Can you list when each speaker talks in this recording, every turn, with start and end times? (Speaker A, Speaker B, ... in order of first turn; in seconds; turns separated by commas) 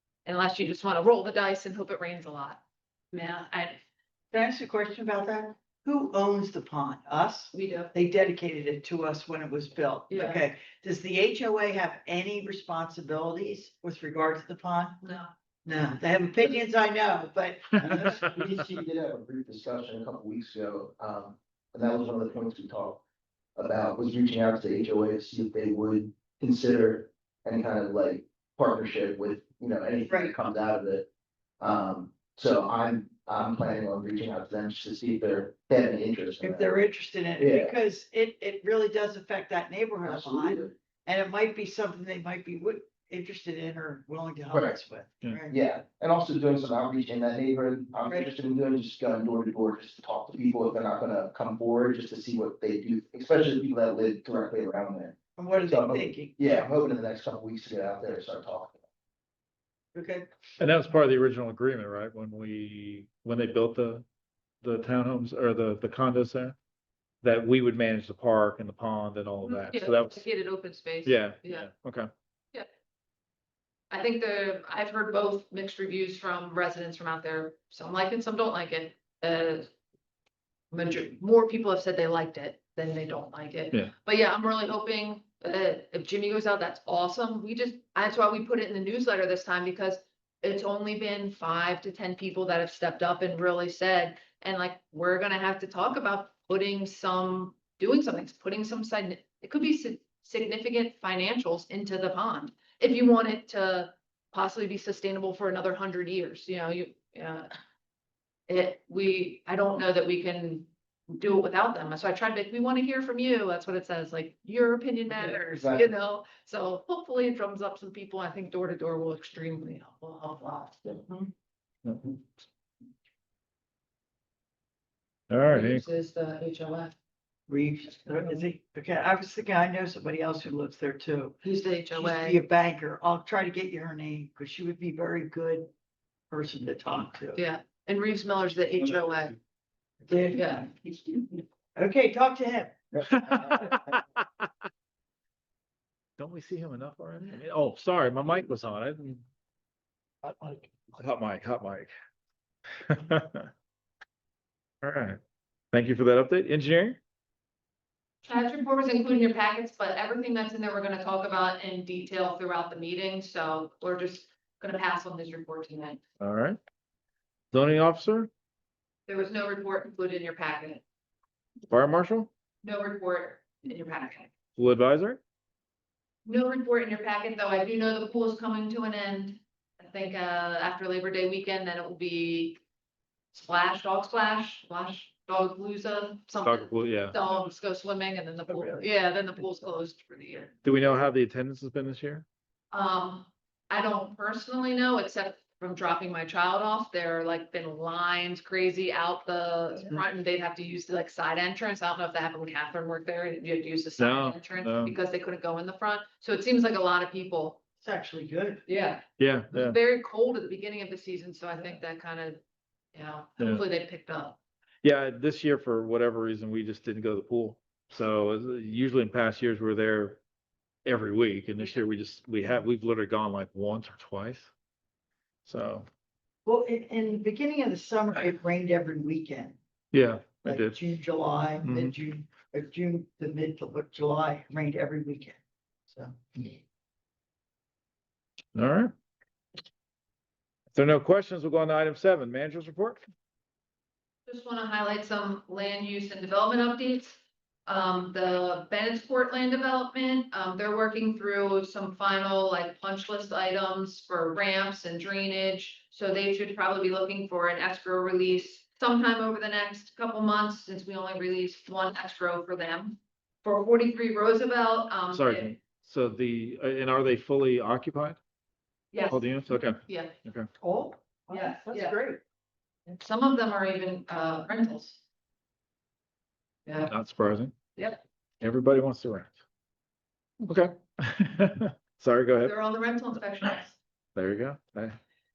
Speaker A: 0.2-3.8, Speaker B: 4.3-15.0, Speaker A: 7.5-7.9, Speaker A: 10.1-10.4, Speaker A: 15.0-15.3, Speaker B: 15.6-18.2, Speaker C: 17.8-23.0, Speaker D: 17.8-18.4, Speaker C: 23.6-31.1, Speaker C: 31.6-36.7, Speaker B: 36.4-45.5, Speaker C: 37.4-37.7, Speaker C: 40.0-40.7, Speaker C: 44.5-44.8, Speaker C: 45.5-58.8, Speaker B: 55.4-56.4, Speaker B: 59.9-60.3, Speaker D: 60.6-64.0, Speaker D: 64.6-66.5, Speaker D: 67.2-70.2, Speaker A: 69.4-71.7, Speaker D: 71.0-72.1, Speaker A: 73.9-79.7, Speaker A: 80.7-107.5, Speaker A: 108.5-120.9, Speaker C: 115.1-115.9, Speaker D: 121.8-122.2, Speaker D: 125.3-125.8, Speaker A: 125.5-126.9, Speaker B: 127.5-131.4, Speaker A: 131.4-132.4, Speaker B: 131.9-135.7, Speaker B: 136.3-137.4, Speaker A: 137.3-139.4, Speaker B: 140.1-140.7, Speaker A: 140.3-140.7, Speaker B: 141.8-142.8, Speaker C: 142.9-143.9, Speaker D: 143.1-144.4, Speaker D: 146.2-149.2, Speaker D: 150.2-151.9, Speaker D: 152.8-153.5, Speaker D: 154.8-155.2, Speaker D: 155.7-157.0, Speaker A: 158.2-166.0, Speaker D: 166.2-166.6, Speaker D: 167.5-168.3, Speaker A: 169.1-170.8, Speaker D: 171.7-172.3, Speaker A: 172.6-174.3, Speaker D: 174.6-175.2, Speaker A: 176.2-182.6, Speaker A: 183.3-190.5, Speaker D: 186.4-187.2, Speaker D: 190.6-192.2, Speaker A: 192.7-207.6, Speaker D: 204.0-204.9, Speaker B: 207.8-208.6, Speaker A: 208.7-212.4, Speaker D: 209.2-209.8, Speaker A: 212.9-214.4, Speaker D: 213.4-213.6, Speaker D: 214.8-220.2, Speaker D: 220.8-224.5, Speaker D: 225.4-225.9, Speaker B: 226.4-229.6, Speaker D: 229.9-230.8, Speaker B: 230.4-236.6, Speaker D: 231.6-231.9, Speaker D: 238.5-238.9, Speaker D: 240.7-243.0, Speaker A: 244.3-265.5, Speaker D: 265.1-268.2, Speaker A: 268.9-270.1, Speaker D: 269.1-270.5, Speaker B: 270.6-272.2, Speaker A: 271.3-272.0, Speaker A: 272.9-275.0, Speaker D: 276.9-277.5, Speaker D: 278.4-279.3, Speaker D: 280.4-282.5, Speaker A: 282.4-283.8, Speaker D: 284.1-284.9